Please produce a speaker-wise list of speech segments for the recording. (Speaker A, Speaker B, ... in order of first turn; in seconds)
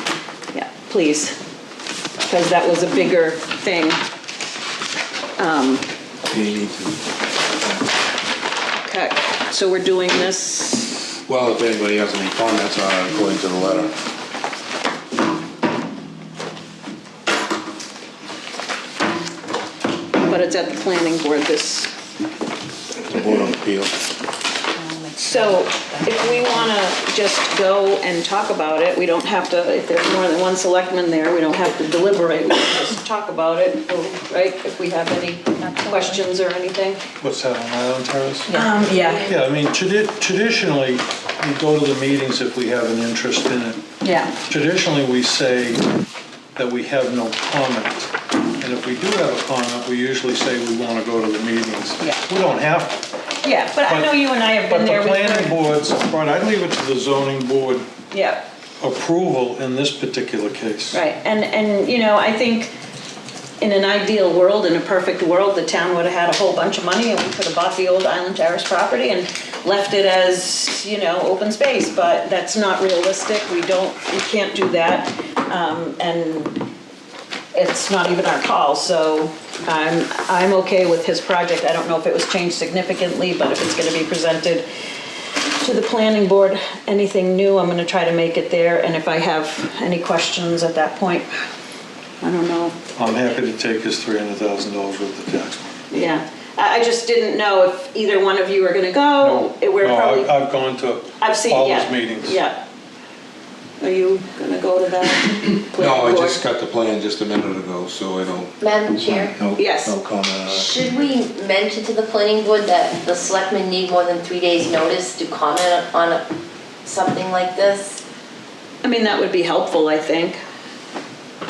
Speaker A: 0.5-1.4, 2.2-4.0, 5.4-5.9, 8.8-11.1, 20.2-21.9, 25.1-37.0, 38.5-39.3, 44.0-44.4, 53.4-55.6, 58.1-58.5, 60.9-62.7, 63.6-76.6, 77.5-84.7, 85.4-91.4, 92.2-92.8, 95.9-100.3, 101.2-102.6, 103.8-106.4, 109.5-110.0, 118.8-120.4
Speaker B: 6.3-7.0, 11.3-13.9, 23.1-23.9, 105.8-110.8
Speaker C: 37.2-43.8, 44.5-45.8, 46.5-53.0, 53.9-54.1, 54.7-57.9, 58.8-61.0, 93.0-95.6, 99.2-102.3
Speaker D: 38.5-39.1, 108.6-109.4, 110.5-116.2, 116.8-118.0